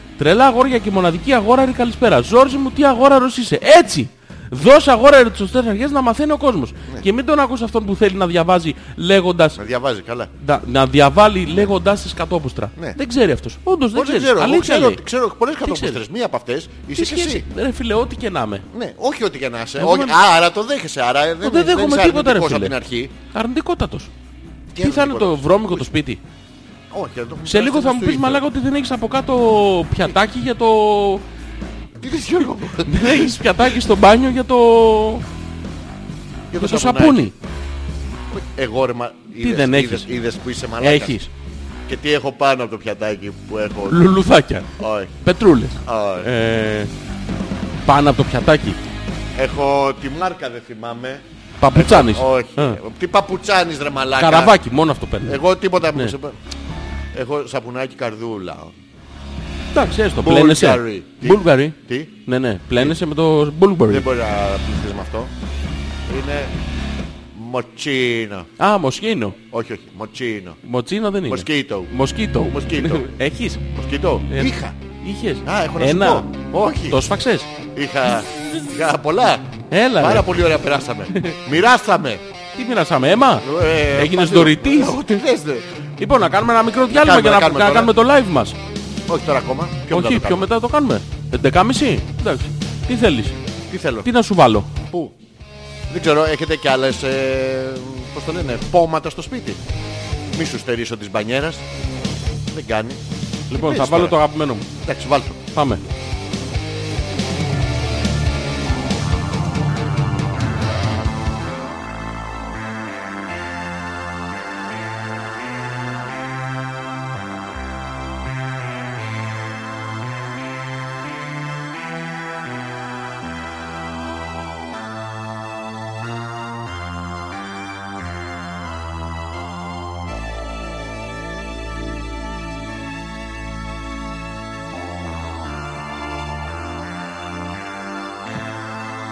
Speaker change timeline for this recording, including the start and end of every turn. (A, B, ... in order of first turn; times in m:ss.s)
0:00.2-0:09.6 A
0:09.6-0:10.3 B
0:10.4-0:15.0 A
0:13.9-0:17.4 B
0:15.6-0:16.0 A
0:16.9-0:18.6 A
0:18.7-0:23.1 B
0:19.8-0:20.2 A
0:21.4-0:22.7 A
0:23.3-0:24.1 A
0:24.7-0:25.9 B
0:24.8-0:26.2 A
0:26.9-0:28.4 B
0:27.4-0:31.2 A
0:32.0-0:33.4 B
0:32.8-0:35.2 A
0:36.5-0:37.3 B
0:36.6-0:37.3 A
0:38.3-0:41.2 B
0:39.4-0:40.1 A
0:40.8-0:41.3 A
0:41.9-0:44.1 B
0:43.9-0:46.9 A
0:44.8-0:45.1 B
0:45.8-0:46.3 B
0:47.8-0:48.8 A
0:49.4-0:54.6 B
0:51.6-0:52.8 A
0:54.2-0:55.4 A
0:55.2-0:56.4 B
0:57.1-0:58.7 B
0:59.7-1:04.0 A
1:00.2-1:02.1 B
1:03.9-1:05.3 B
1:06.1-1:06.5 B
1:07.3-1:08.5 B
1:08.6-1:09.4 A
1:09.5-1:10.6 B
1:10.6-1:13.6 A
1:11.2-1:13.1 B
1:13.7-1:14.8 B
1:14.3-1:16.3 A
1:15.4-1:17.0 B
1:16.9-1:17.5 A
1:17.7-1:22.2 B
1:19.7-1:20.3 A
1:22.6-1:25.2 A
1:23.4-1:25.6 B
1:26.0-1:28.6 A
1:26.9-1:27.9 B
1:29.1-1:30.4 B
1:29.9-1:33.4 A
1:33.7-1:34.1 B
1:34.0-1:34.7 A
1:34.7-1:35.1 B
1:35.9-1:39.6 B
1:40.3-1:41.6 B
1:42.5-1:43.0 B
1:43.5-1:44.7 A
1:43.5-1:44.2 B
1:44.8-1:45.4 B
1:45.5-1:45.8 A